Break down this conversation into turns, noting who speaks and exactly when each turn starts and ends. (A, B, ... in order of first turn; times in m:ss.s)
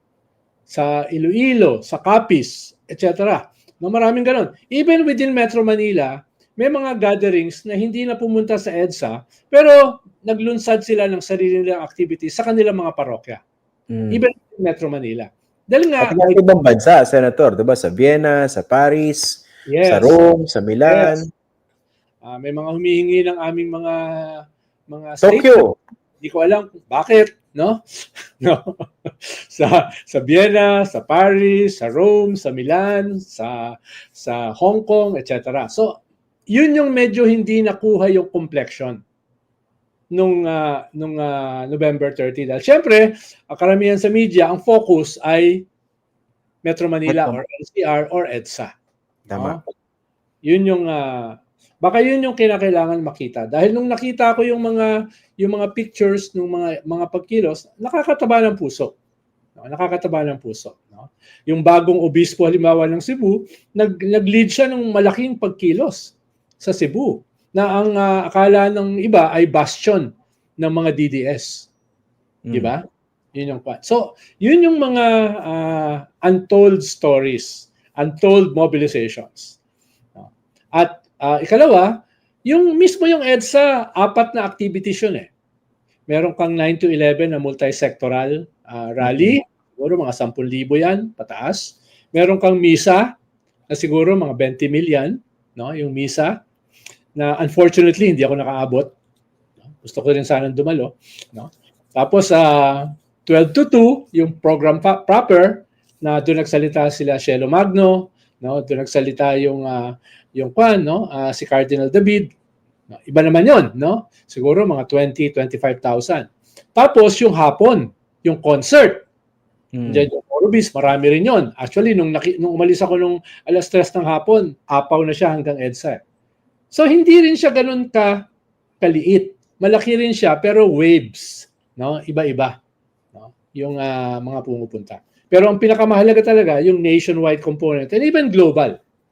0:00.7-0:13.4 A
0:13.9-0:14.2 B
0:14.1-0:16.4 A
0:16.0-0:21.3 B
0:19.6-0:20.1 A
0:20.9-0:21.1 A
0:22.2-0:25.6 A
0:25.2-0:25.7 B
0:26.2-0:39.0 A
0:40.1-0:45.6 A
0:46.6-0:48.7 A
0:47.0-0:47.4 B
0:49.3-0:49.6 A
0:49.3-0:49.6 B
0:50.4-0:51.3 A
0:51.8-0:58.9 A
0:59.6-1:11.7 A
1:12.4-1:12.7 B
1:12.5-1:12.8 A
1:13.3-1:19.6 A
1:20.2-1:22.0 A
1:22.5-1:25.3 A
1:26.1-1:33.1 A
1:29.0-1:29.4 B
1:33.7-1:36.4 A
1:37.2-1:38.9 A
1:39.7-1:52.3 A
1:53.1-1:59.0 A
1:59.7-2:00.1 B
1:59.9-2:06.0 A
2:06.7-2:08.2 A
2:08.8-2:12.6 A
2:13.1-2:18.8 A